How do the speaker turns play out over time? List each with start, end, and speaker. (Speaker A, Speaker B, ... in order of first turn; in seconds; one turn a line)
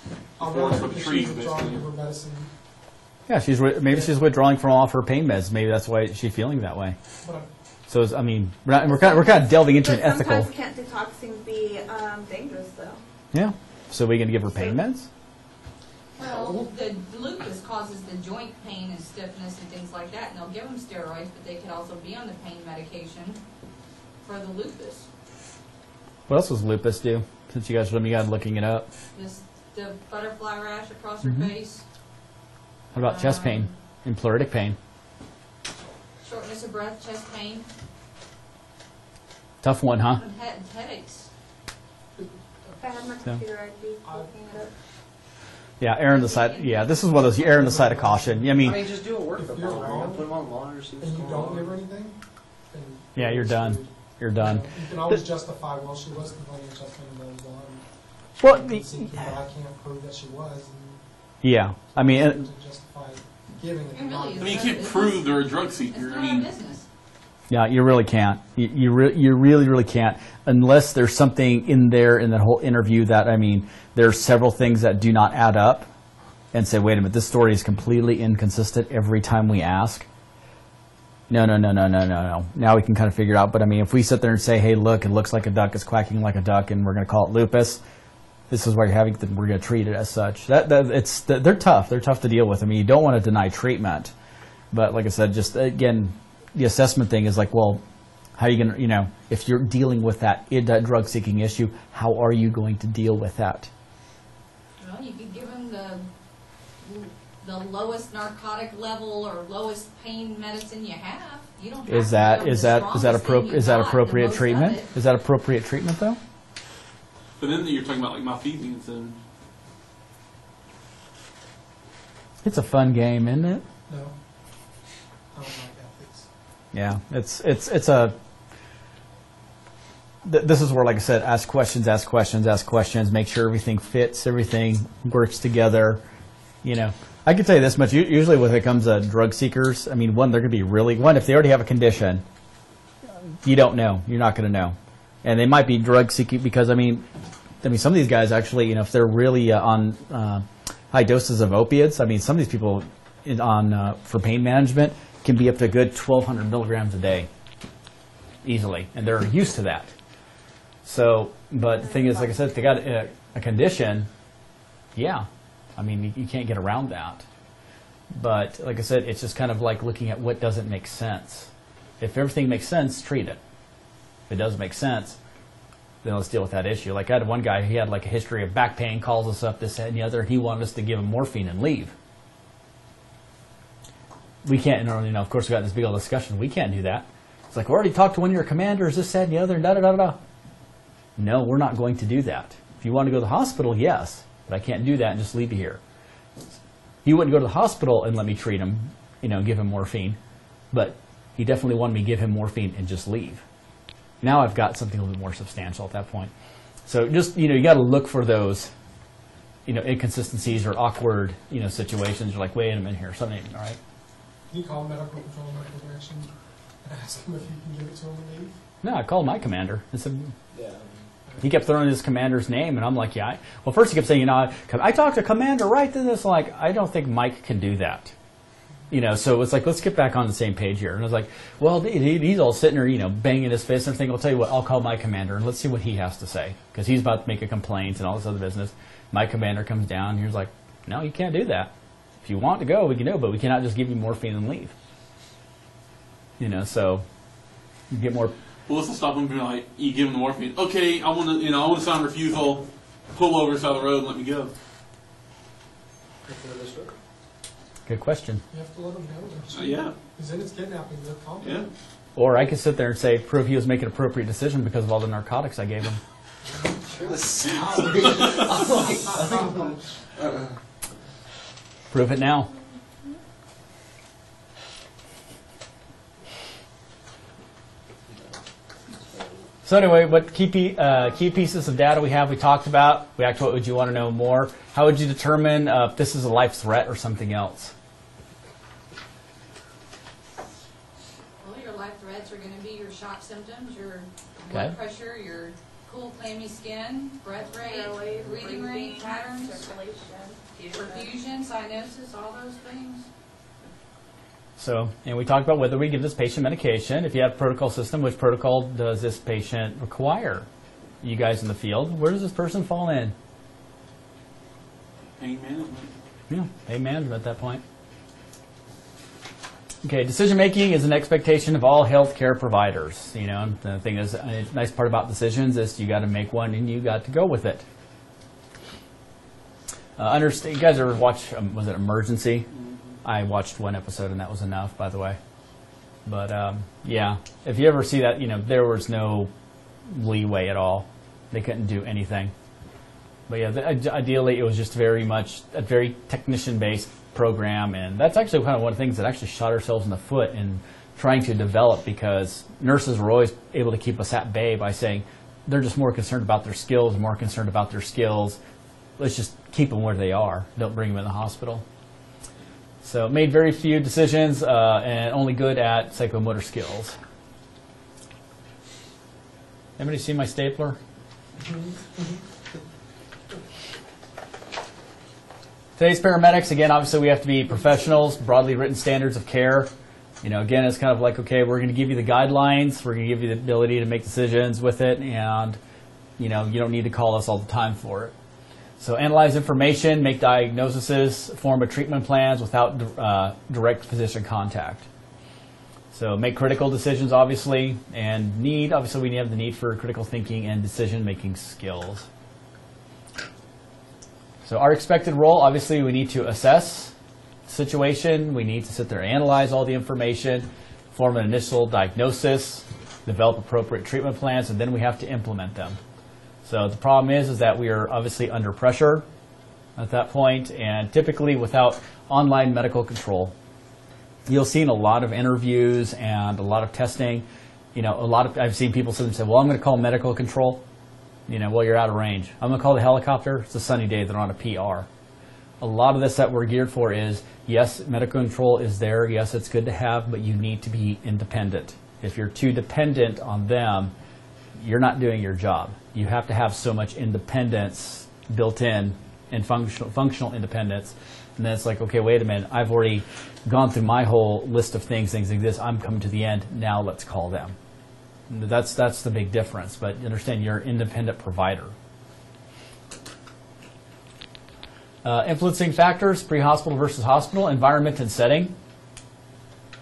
Speaker A: 0.4-1.9
Speaker B: 0.4-2.5
Speaker C: 3.3-7.0
Speaker B: 7.2-7.5
Speaker C: 7.9-10.5
Speaker D: 8.8-13.0
Speaker C: 13.3-15.1
Speaker E: 16.2-23.4
Speaker F: 16.2-16.6
Speaker E: 24.2-25.1
Speaker C: 26.3-28.9
Speaker E: 29.1-31.8
Speaker C: 31.2-31.5
Speaker E: 32.9-33.7
Speaker C: 32.9-34.8
Speaker E: 36.2-37.7
Speaker C: 39.6-40.2
Speaker E: 40.1-41.3
Speaker D: 42.6-44.7
Speaker C: 45.8-48.8
Speaker E: 46.1-47.1
Speaker B: 47.3-50.3
Speaker F: 48.6-51.8
Speaker B: 51.0-52.2
Speaker B: 52.7-57.8
Speaker C: 53.1-55.2
Speaker C: 58.4-59.3
Speaker B: 58.4-61.0
Speaker C: 61.4-62.5
Speaker B: 61.9-65.2
Speaker E: 63.9-66.8
Speaker A: 64.4-66.5
Speaker C: 67.5-75.9
Speaker C: 76.5-80.0
Speaker C: 81.3-87.8
Speaker C: 88.5-94.1
Speaker C: 94.7-97.8
Speaker C: 98.4-103.7
Speaker E: 104.8-106.1
Speaker E: 106.8-114.9
Speaker C: 111.9-116.2
Speaker A: 117.4-119.2
Speaker C: 122.4-123.6
Speaker B: 123.9-124.2
Speaker B: 125.3-126.3
Speaker C: 126.7-128.1
Speaker C: 130.2-136.0
Speaker C: 136.6-142.2
Speaker C: 143.4-147.0
Speaker C: 147.6-157.3
Speaker C: 158.4-159.9
Speaker C: 160.8-164.1
Speaker D: 161.8-162.6
Speaker C: 164.9-167.2
Speaker C: 168.1-173.4
Speaker C: 174.3-175.2
Speaker C: 176.0-181.9
Speaker C: 184.4-190.2
Speaker C: 191.2-195.8
Speaker C: 197.0-200.2
Speaker C: 200.7-203.4
Speaker C: 204.2-206.3
Speaker C: 206.8-208.7
Speaker C: 209.7-213.8
Speaker B: 214.5-218.6
Speaker C: 218.8-220.3
Speaker F: 220.5-221.1
Speaker C: 221.4-228.1
Speaker C: 228.9-241.7
Speaker C: 242.2-244.7
Speaker C: 246.4-247.0
Speaker C: 247.9-248.3
Speaker A: 248.7-254.5
Speaker F: 256.2-256.9
Speaker C: 257.9-258.4
Speaker B: 258.5-261.7
Speaker A: 259.5-259.9
Speaker A: 261.4-261.7
Speaker C: 262.1-266.0
Speaker B: 266.4-269.8
Speaker F: 266.9-270.4
Speaker A: 267.4-268.6
Speaker C: 271.9-272.5
Speaker F: 278.1-279.5
Speaker C: 279.6-287.7
Speaker E: 291.4-299.7
Speaker C: 294.5-294.8
Speaker D: 297.4-301.1
Speaker E: 300.7-303.1
Speaker C: 304.6-310.5
Speaker C: 311.0-313.1
Speaker A: 315.2-315.9
Speaker C: 316.3-317.6
Speaker C: 319.8-327.6
Speaker C: 330.0-332.5
Speaker A: 332.5-332.9
Speaker C: 333.0-335.2
Speaker C: 336.1-339.3
Speaker C: 339.9-342.3
Speaker C: 343.3-358.4
Speaker C: 359.0-361.6
Speaker C: 362.8-367.0
Speaker C: 369.8-370.8
Speaker C: 375.8-379.7
Speaker C: 380.2-385.6
Speaker C: 386.2-388.1
Speaker C: 388.8-394.9
Speaker C: 395.9-402.1
Speaker C: 404.4-406.9
Speaker C: 407.5-415.8
Speaker C: 416.4-419.0
Speaker C: 419.8-423.3
Speaker C: 424.2-430.6
Speaker C: 431.3-434.9
Speaker C: 435.6-443.9
Speaker C: 444.5-457.6
Speaker C: 458.3-461.7
Speaker C: 465.0-468.5